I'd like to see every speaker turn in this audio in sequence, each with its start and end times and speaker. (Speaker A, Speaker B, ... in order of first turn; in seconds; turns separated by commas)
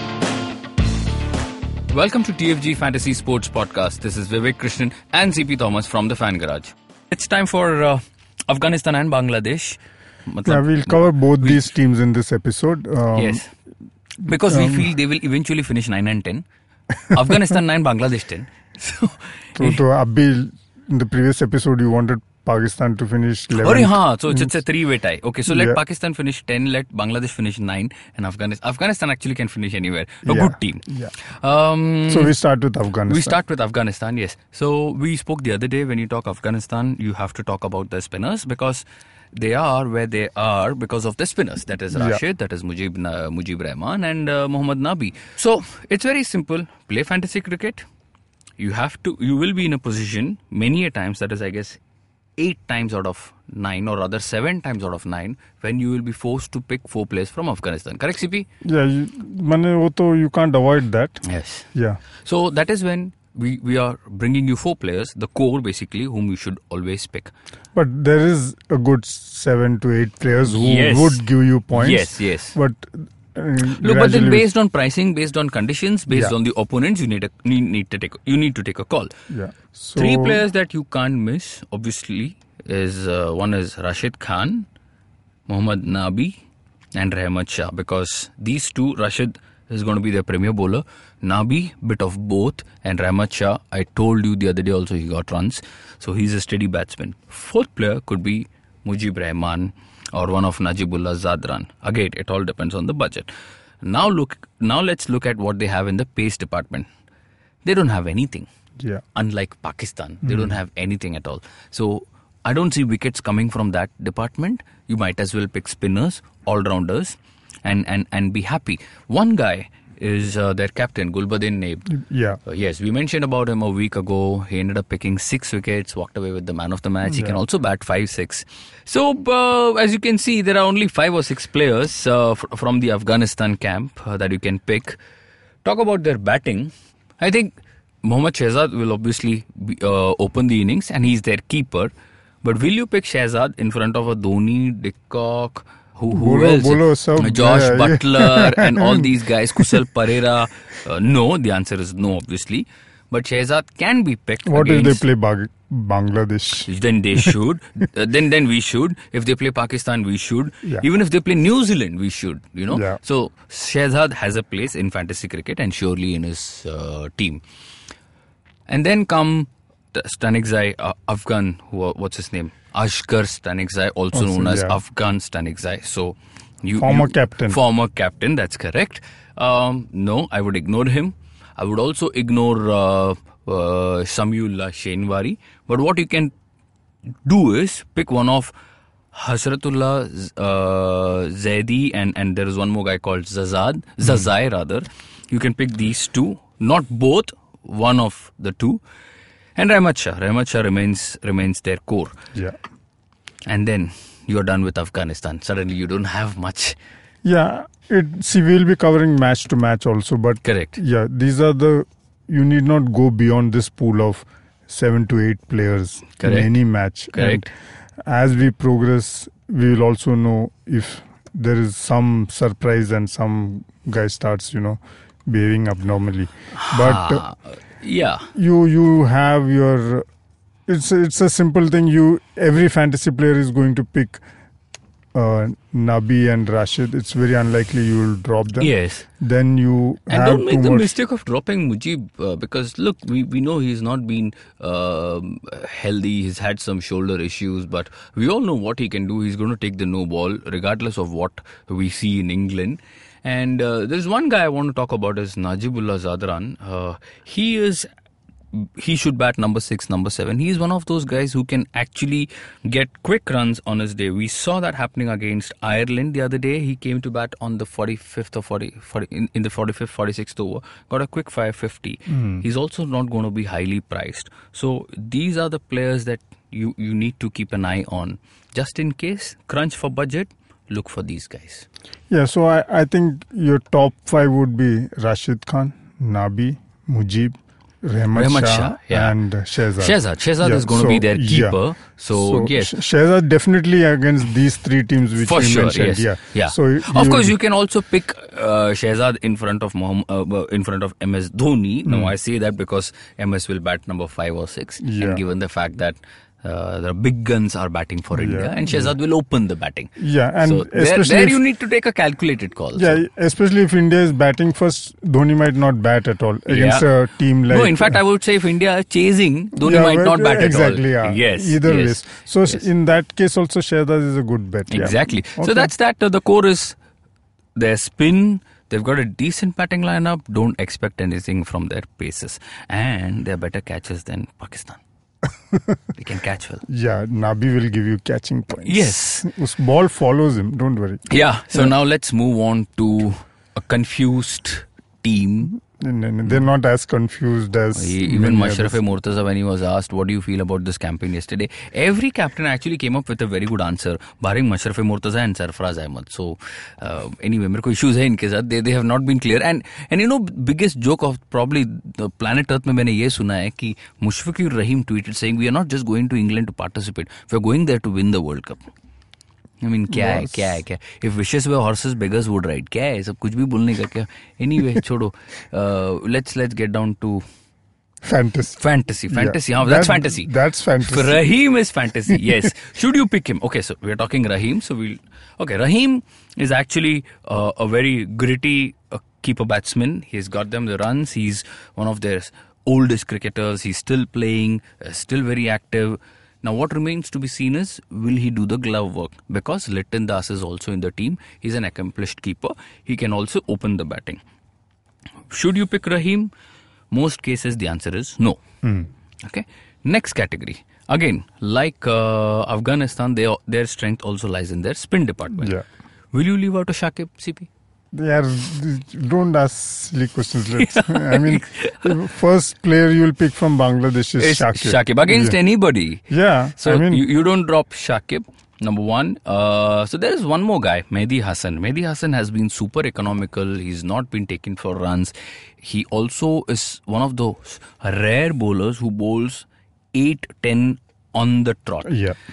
Speaker A: 1.9-11.7, Speaker B: 10.4-13.4, Speaker A: 13.1-13.5, Speaker A: 14.2-16.4, Speaker B: 14.4-14.9, Speaker A: 17.1-19.8, Speaker B: 19.6-24.6, Speaker A: 23.5-32.3, Speaker B: 25.5-25.8, Speaker B: 30.2-31.1, Speaker B: 32.1-33.4, Speaker A: 33.1-47.8, Speaker B: 41.9-42.2, Speaker A: 48.6-51.8, Speaker A: 52.4-58.5, Speaker B: 58.6-62.0, Speaker A: 61.2-61.7, Speaker A: 62.2-67.3, Speaker B: 67.7-74.5, Speaker A: 70.5-72.5, Speaker A: 73.6-79.1, Speaker B: 76.1-76.3, Speaker B: 79.3-80.4, Speaker A: 79.9-84.7, Speaker A: 85.5-86.4, Speaker A: 86.9-103.3, Speaker A: 103.8-106.9, Speaker A: 107.6-108.5, Speaker A: 109.1-121.9, Speaker B: 110.2-110.5, Speaker B: 121.9-122.4, Speaker A: 122.5-135.0, Speaker B: 127.0-127.4, Speaker A: 135.6-155.0, Speaker B: 146.1-149.8, Speaker B: 154.5-157.3, Speaker A: 156.7-167.4, Speaker B: 162.7-163.0, Speaker A: 168.7-186.3, Speaker B: 174.1-174.8, Speaker B: 176.8-177.6, Speaker A: 187.2-188.5, Speaker A: 189.1-198.8, Speaker A: 199.6-202.1, Speaker A: 203.4-206.8, Speaker B: 207.2-217.5, Speaker A: 210.4-210.8, Speaker A: 216.2-216.5, Speaker A: 217.1-217.5, Speaker B: 218.1-227.2, Speaker A: 226.5-228.3, Speaker B: 228.3-230.1, Speaker B: 230.7-234.2, Speaker B: 235.1-240.9, Speaker A: 238.6-239.1, Speaker A: 240.1-257.9, Speaker A: 258.5-281.6, Speaker B: 282.1-297.3, Speaker A: 288.1-289.1, Speaker A: 289.8-292.7, Speaker A: 295.2-313.0, Speaker B: 301.9-302.1, Speaker B: 304.8-305.2, Speaker B: 308.1-308.9, Speaker B: 310.0-311.4, Speaker B: 312.7-318.0, Speaker A: 316.5-322.6, Speaker B: 319.6-325.7, Speaker A: 324.7-326.8, Speaker A: 327.6-334.8, Speaker A: 335.9-336.6, Speaker B: 336.7-341.7, Speaker A: 338.6-339.3, Speaker A: 341.1-345.5, Speaker B: 345.5-348.8, Speaker A: 347.7-368.7, Speaker A: 369.6-377.2, Speaker B: 369.9-370.3, Speaker B: 378.0-381.2, Speaker A: 378.6-404.2, Speaker A: 405.3-406.3, Speaker A: 406.9-408.4, Speaker B: 408.6-408.9, Speaker A: 409.2-415.5, Speaker B: 415.4-415.6, Speaker A: 416.1-417.5, Speaker B: 417.9-425.4, Speaker A: 420.6-421.9, Speaker A: 424.2-441.9, Speaker B: 426.1-427.0, Speaker B: 441.8-442.2